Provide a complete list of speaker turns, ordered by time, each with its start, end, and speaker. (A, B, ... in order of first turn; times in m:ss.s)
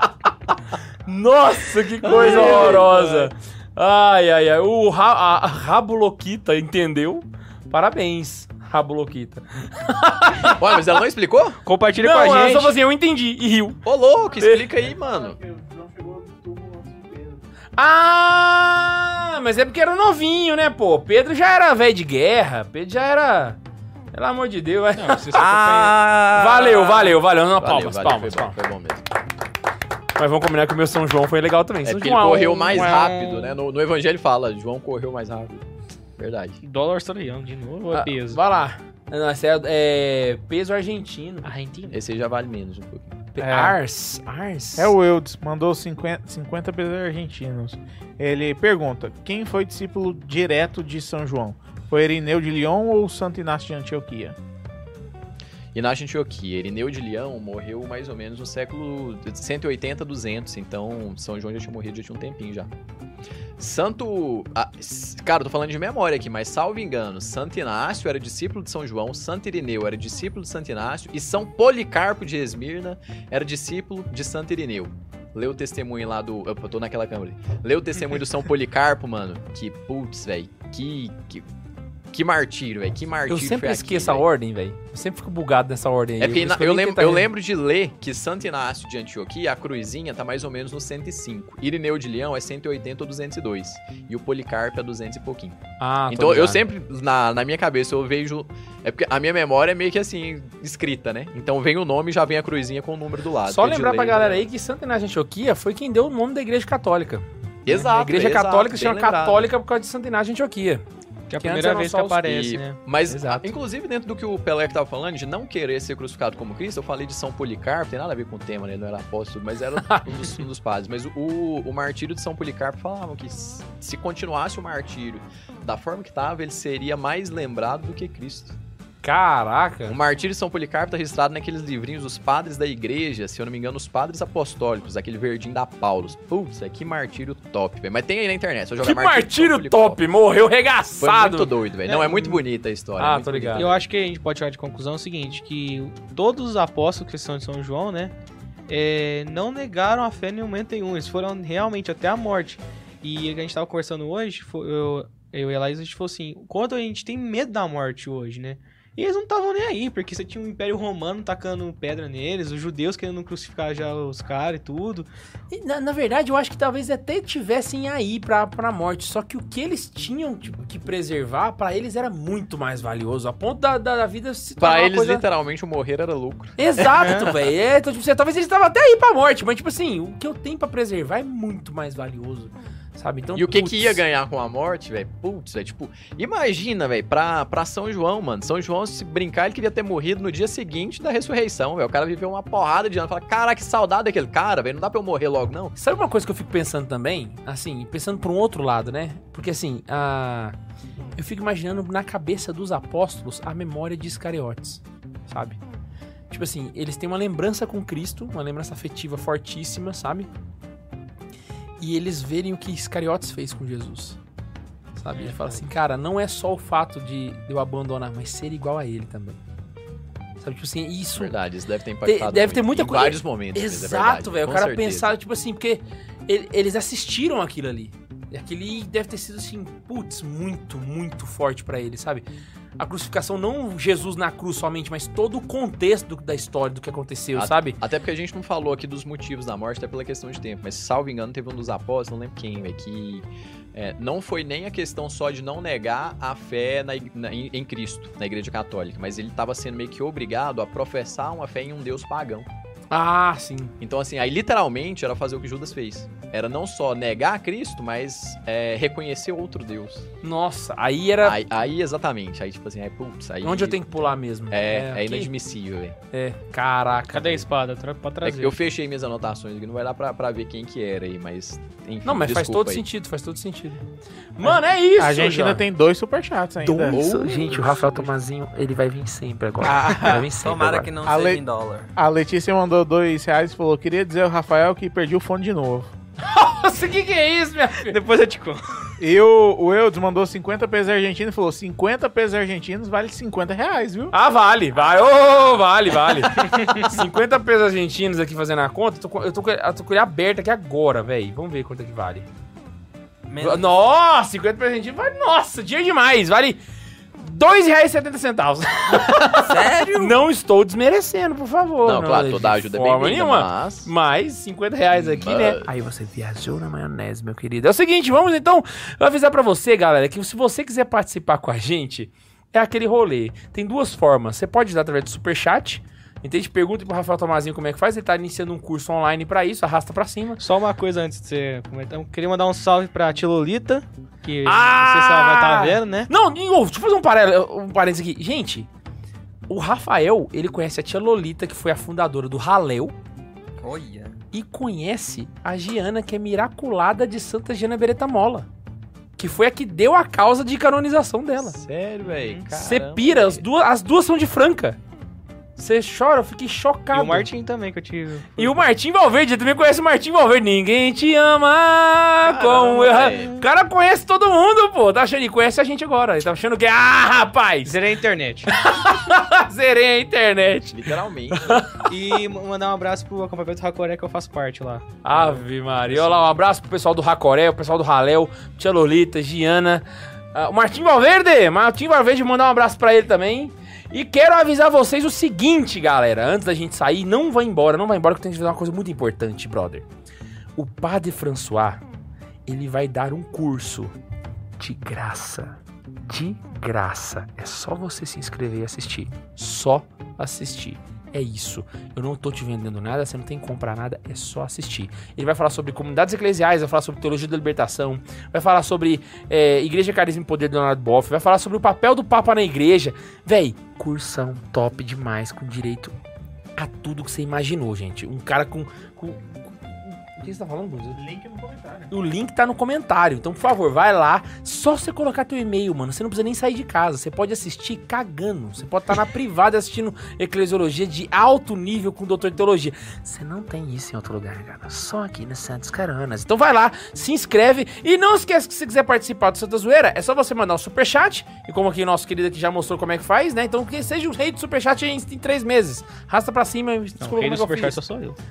0:01.1-0:10.9 A
0:02.0-0:03.3 B
0:02.0-0:02.9 C
0:10.5-0:11.6 C
0:11.6-0:12.8 B
0:12.0-0:13.8 A
0:13.8-0:15.4 C
0:14.4-0:14.7 A
0:14.9-0:17.4 D
0:17.8-0:23.6 A
0:24.1-0:25.4 A
0:24.9-0:26.0 B
0:25.3-0:27.1 E
0:26.3-0:28.6 A
0:27.6-0:29.0 C
0:30.2-0:32.9 A
0:31.8-0:35.6 C
0:32.7-0:33.6 B
0:36.2-0:36.6 C
0:36.6-0:38.4 B
0:37.9-0:41.5 A
0:41.4-0:42.0 B
0:41.9-0:43.2 C
0:43.4-0:45.0 A
0:43.4-0:43.8 D
0:44.8-0:54.4 D
0:55.7-1:02.7 C
1:03.6-1:21.5 C
1:22.1-1:24.2 C
1:23.3-1:27.3 A
1:26.2-1:44.5 C
1:35.8-1:36.6 A
1:43.5-1:50.8 A
1:47.7-1:49.5 C
1:51.3-1:52.8 B
1:51.4-1:52.4 A
1:52.3-2:08.6 C
1:53.1-1:53.5 A
2:09.0-2:10.0 A
2:09.9-2:20.0 C
2:18.8-2:21.5 A
2:21.0-2:23.8 C
2:21.9-2:22.4 B
2:23.0-2:23.7 A
2:23.6-2:28.1 B
2:28.7-2:45.1 B
2:45.5-2:55.2 A
2:54.6-2:56.6 C
2:56.6-3:04.0 A
2:56.9-2:57.3 B
3:03.3-3:15.7 C
3:15.8-3:20.5 A
3:21.2-3:25.6 A
3:26.3-3:30.3 A
3:31.8-3:34.2 A
3:35.0-3:39.4 A
3:40.4-3:41.4 A
3:41.2-3:45.1 C
3:42.0-3:52.2 A
3:52.8-3:57.8 A
3:57.4-4:12.5 C
4:12.9-4:13.7 A
4:13.8-4:20.1 C
4:20.2-4:21.4 A
4:21.2-4:26.0 C
4:23.4-4:25.3 A
4:26.1-4:27.5 A
4:27.1-4:28.6 B
4:28.2-4:32.8 C
4:32.0-4:33.8 A
4:34.4-4:35.6 A
4:34.4-4:37.0 D
4:36.6-4:40.9 A
4:36.9-4:38.1 C
4:39.6-4:40.3 D
4:40.4-4:41.9 E
4:41.0-4:41.4 D
4:42.0-4:45.9 D
4:46.2-4:48.0 A
4:47.8-4:48.9 B
4:49.0-4:54.1 D
4:54.1-5:02.3 A
4:56.3-4:56.9 B
5:03.3-5:03.7 E
5:03.4-5:06.6 A
5:07.2-5:30.4 A
5:09.2-5:10.2 E
5:11.8-5:13.9 C
5:14.9-5:15.7 C
5:30.4-5:36.1 B
5:34.4-5:38.7 A
5:39.5-5:42.9 A
5:43.6-5:44.2 E
5:44.3-5:48.5 A
5:49.2-5:51.6 A
5:51.4-5:53.4 C
5:52.0-5:52.4 B
5:52.5-5:54.8 A
5:55.6-5:57.3 A
5:56.9-5:58.6 B
5:58.4-6:07.8 A
6:02.2-6:03.4 C
6:07.6-6:08.5 B
6:08.5-6:11.9 A
6:10.7-6:11.7 C
6:11.8-6:16.1 B
6:15.0-6:29.8 A
6:30.6-6:31.8 A
6:32.5-6:33.9 A
6:34.6-6:35.6 A
6:36.1-6:55.9 A
6:56.6-7:01.0 A
7:01.0-7:01.9 D
7:01.9-7:27.8 A
7:27.0-7:28.2 B